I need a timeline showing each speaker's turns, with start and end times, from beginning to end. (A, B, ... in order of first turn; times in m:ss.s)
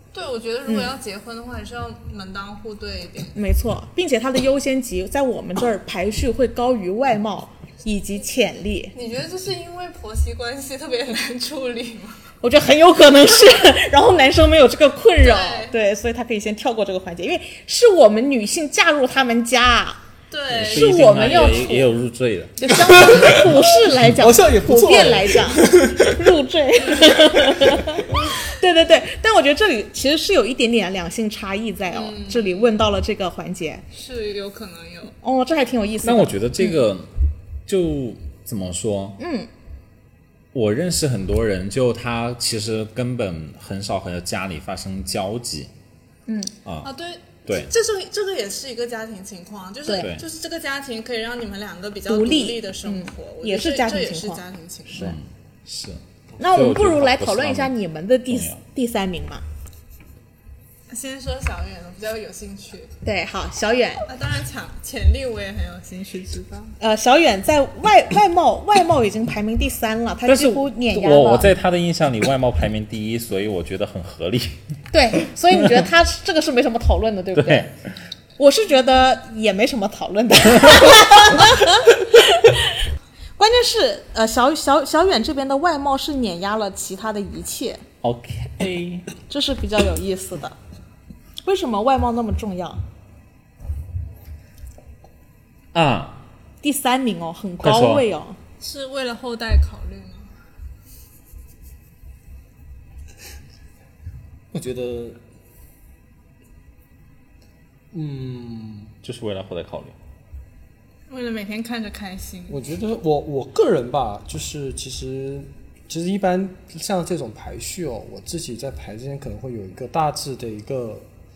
0:00.1-0:03.3 A
0:00.7-0:00.9 B
0:03.3-0:08.9 B
0:08.9-0:12.2 A
0:12.4-0:20.0 B
0:15.2-0:15.7 A
0:20.3-0:21.6 A
0:20.5-0:23.2 C
0:20.7-0:21.9 B
0:22.6-0:33.8 B
0:22.7-0:26.1 D
0:26.8-0:27.5 A
0:31.9-0:32.7 A
0:33.9-0:35.2 A
0:35.2-0:36.8 B
0:36.0-0:37.1 C
0:37.6-0:39.2 C
0:39.2-0:39.5 B
0:40.5-0:45.7 C
0:46.3-0:46.5 B
0:46.6-0:46.9 C
0:46.8-0:55.2 A
0:47.4-0:47.7 C
0:50.0-0:50.2 C
0:52.1-0:54.4 B
0:54.9-0:57.7 C
0:56.4-0:59.4 B
0:58.3-0:58.6 C
1:00.9-1:02.9 A
1:03.0-1:04.1 B
1:04.1-1:06.8 A
1:06.8-1:11.5 B
1:10.2-1:14.6 C
1:14.9-1:17.7 B
1:17.4-1:17.7 C
1:18.4-1:22.8 B
1:23.4-1:27.8 B
1:28.0-1:29.1 C
1:29.3-1:30.6 B
1:31.4-1:32.8 B
1:35.7-1:36.2 C
1:36.6-1:38.4 B
1:37.6-1:38.0 C
1:38.6-1:40.3 A
1:44.5-1:45.2 D
1:47.9-1:48.9 D
1:49.0-1:49.9 C
1:51.1-1:52.6 A
1:52.5-2:01.0 D